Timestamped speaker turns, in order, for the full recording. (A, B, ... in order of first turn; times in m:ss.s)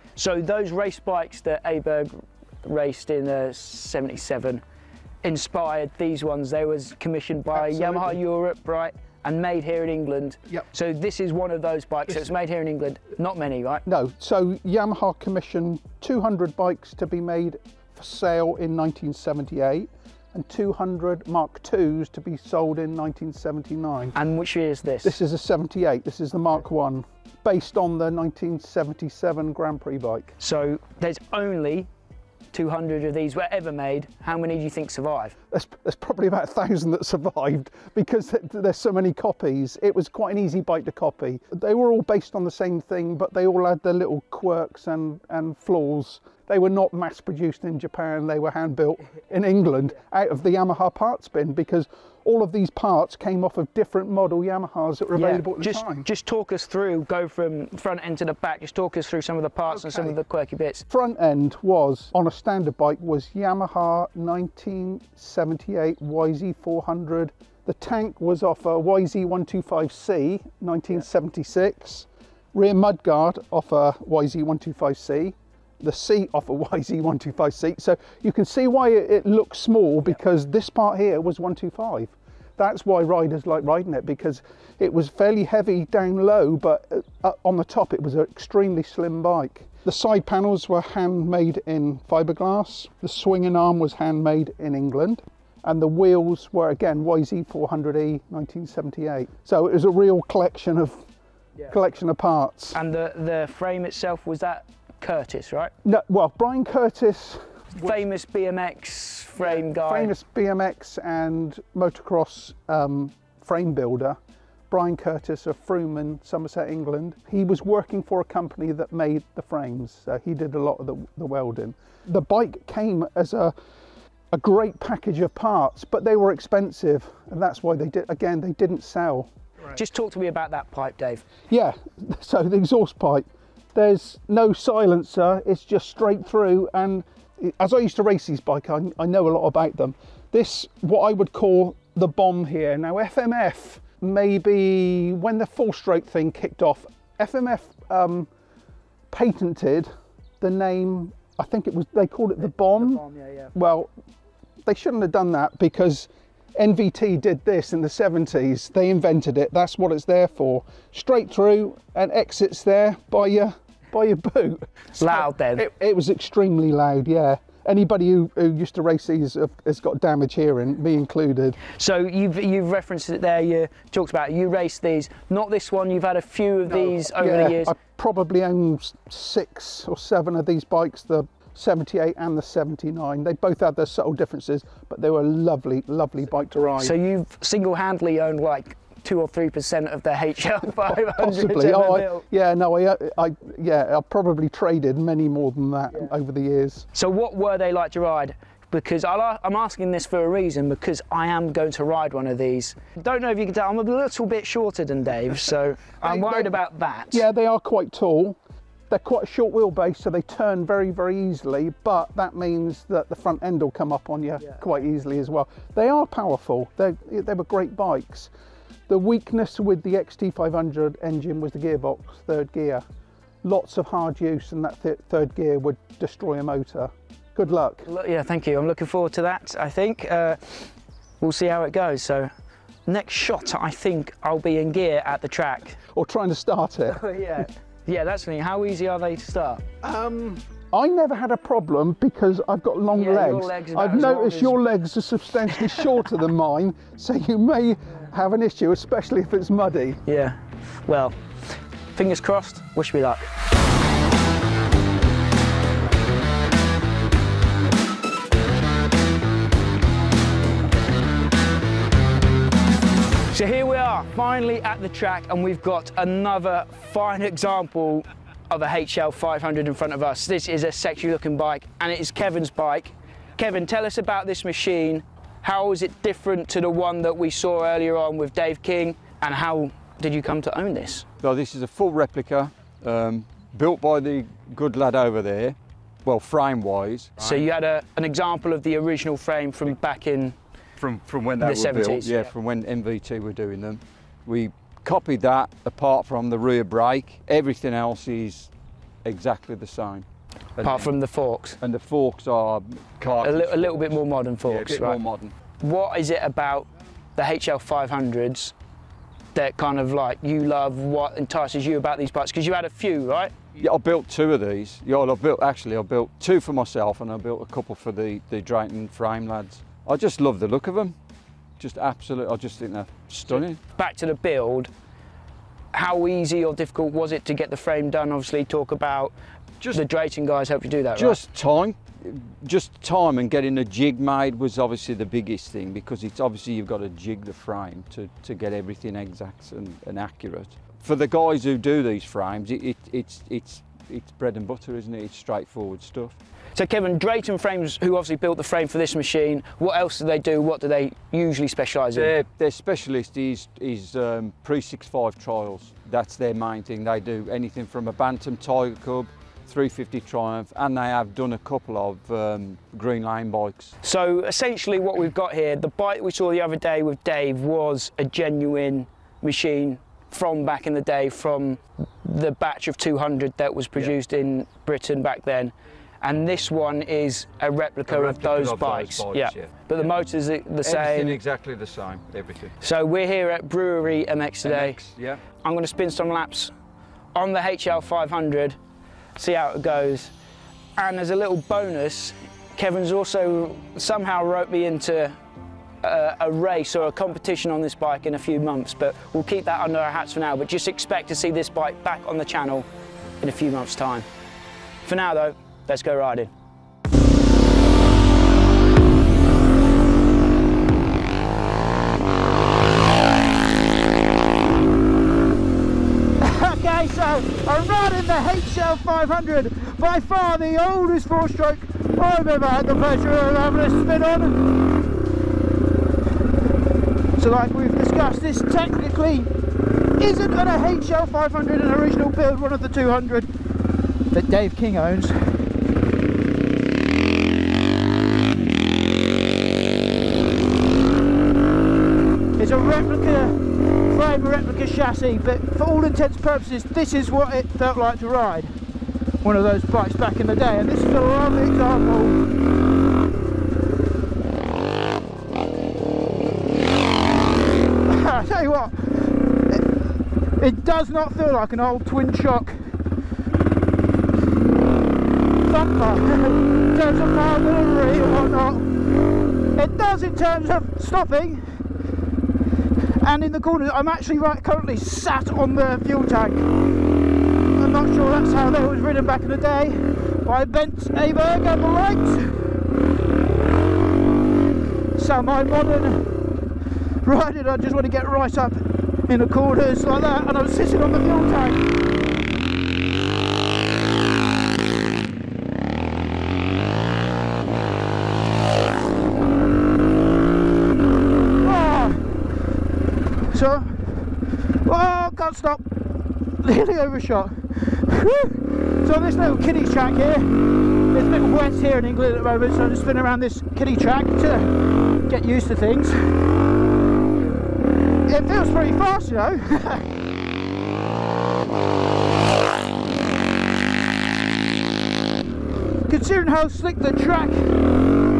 0:00.2-0:04.6 A
0:05.2-0:13.8 A
0:07.5-0:08.2 B
0:13.8-0:24.2 B
0:24.1-0:25.1 A
0:25.0-0:30.3 B
0:30.4-0:31.9 A
0:32.5-0:35.3 A
0:35.5-0:56.1 B
0:55.1-1:00.8 A
0:59.7-1:00.2 B
1:00.9-1:41.0 B
1:41.7-1:42.8 B
1:42.7-1:45.7 A
1:45.8-1:48.0 B
1:47.8-1:50.1 A
1:49.4-1:54.2 B
1:54.7-2:03.5 B
2:04.3-2:09.3 B
2:09.7-2:11.2 A
2:11.5-2:28.3 B
2:29.1-2:33.0 B
2:32.6-2:33.5 A
2:33.5-2:33.9 B
2:34.6-2:51.6 B
2:45.0-2:45.7 A
2:51.7-2:57.7 A
2:56.7-3:07.0 B
3:06.8-3:12.2 A
3:11.0-3:16.9 B
3:16.9-3:27.2 A
3:26.0-3:26.5 B
3:27.1-3:28.4 B
3:28.9-3:38.3 B
3:38.9-3:42.8 B
3:43.4-3:47.9 B
3:47.8-3:50.7 A
3:51.2-3:52.3 A
3:52.9-3:55.8 A
3:55.9-3:57.0 B
3:56.9-3:59.6 A
3:59.8-4:10.0 B
4:02.9-4:04.6 A
4:10.0-4:11.2 A
4:12.0-4:13.3 A
4:23.3-4:41.0 A
4:41.2-4:47.4 C
4:47.2-4:50.4 A
4:50.8-4:58.5 C
4:51.4-4:52.3 A
4:59.0-5:00.0 C
5:00.6-5:01.0 C
5:00.6-5:01.6 A
5:01.6-5:05.3 C
5:03.2-5:05.0 A
5:05.6-5:08.5 A
5:09.3-5:13.4 A
5:13.6-5:20.9 C
5:21.6-5:23.6 C
5:23.7-5:24.7 A
5:25.7-5:29.1 A
5:29.7-5:31.2 A
5:30.9-5:46.2 C
5:46.5-5:52.1 A
5:51.9-6:03.7 C
6:03.8-6:21.2 A
6:17.8-6:19.9 C
6:20.6-6:22.6 C
6:22.6-6:24.8 A
6:24.4-6:25.2 C
6:25.4-6:26.5 A
6:27.1-6:28.6 A
6:29.2-6:30.1 A
6:30.8-6:35.2 A
6:35.8-6:42.7 A
6:43.2-6:44.0 A
6:44.8-6:46.3 A
6:56.2-7:04.6 D
7:07.2-7:09.3 D
7:10.0-7:13.3 D
7:14.1-7:15.5 D
7:22.4-7:28.6 D
7:29.2-7:32.2 D
7:37.8-7:42.8 D
7:45.4-7:48.9 D
7:49.6-7:51.5 D
7:53.0-7:56.5 D
7:57.5-8:02.6 D
8:05.0-8:06.1 D
8:07.0-8:11.8 D
8:21.4-8:22.3 D
8:23.3-8:25.6 D
8:26.4-8:36.3 D
8:38.1-8:39.9 D
8:45.8-8:47.6 D